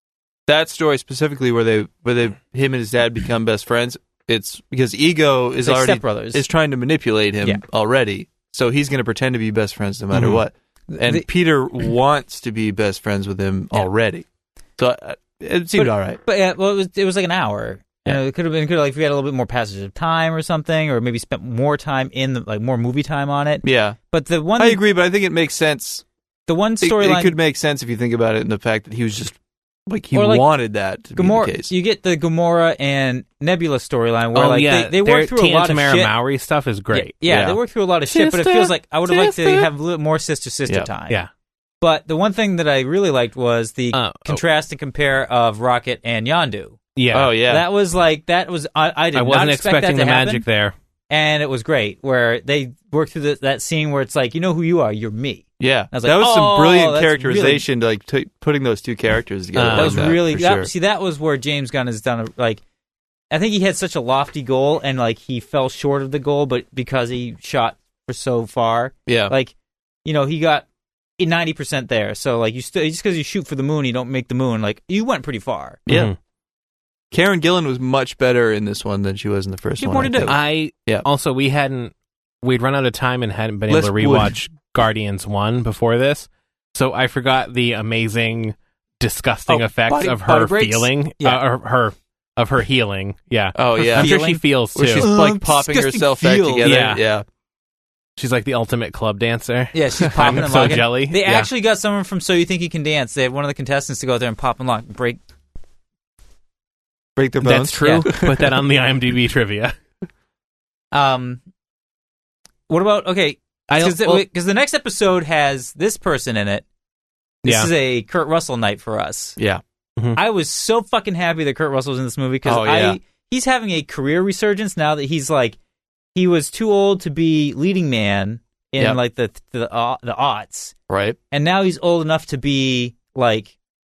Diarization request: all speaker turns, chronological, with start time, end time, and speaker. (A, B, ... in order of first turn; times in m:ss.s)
0:00.5-0:14.2 A
0:05.6-0:06.4 B
0:10.1-0:10.4 C
0:11.0-0:11.2 B
0:14.8-0:16.2 A
0:15.7-0:24.8 B
0:23.6-0:24.0 A
0:24.6-0:26.0 A
0:26.5-0:27.4 B
0:26.8-0:31.7 A
0:30.1-0:30.5 B
0:31.1-0:36.1 B
0:34.3-0:37.1 C
0:36.9-0:41.2 B
0:37.2-0:37.6 A
0:38.1-0:39.7 C
0:41.8-0:46.8 B
0:43.9-0:44.4 C
0:47.0-0:47.3 C
0:47.1-0:47.6 A
0:47.4-0:50.4 B
0:49.1-0:50.7 C
0:51.1-0:57.6 B
0:55.6-1:00.7 A
0:59.5-1:00.2 C
0:59.7-1:02.6 B
1:03.3-1:09.5 B
1:09.1-1:09.3 A
1:10.0-1:10.6 B
1:11.2-1:15.8 B
1:15.9-1:16.2 C
1:17.1-1:21.0 A
1:19.8-1:20.4 B
1:20.3-1:35.1 C
1:23.7-1:24.4 A
1:29.5-1:31.4 B
1:33.6-1:34.1 A
1:33.9-1:36.8 B
1:34.7-1:37.2 A
1:36.6-1:37.0 C
1:38.2-1:41.5 C
1:39.7-1:45.2 B
1:47.2-1:48.4 A
1:47.4-1:49.7 C
1:47.6-1:48.1 B
1:50.9-1:51.4 B
1:52.7-1:56.6 B
1:53.7-1:54.2 C
1:57.4-1:59.4 B
1:57.4-1:57.7 C
2:00.2-2:05.6 B
2:02.4-2:03.0 A
2:06.1-2:10.7 B
2:10.9-2:11.2 A
2:11.3-2:13.5 B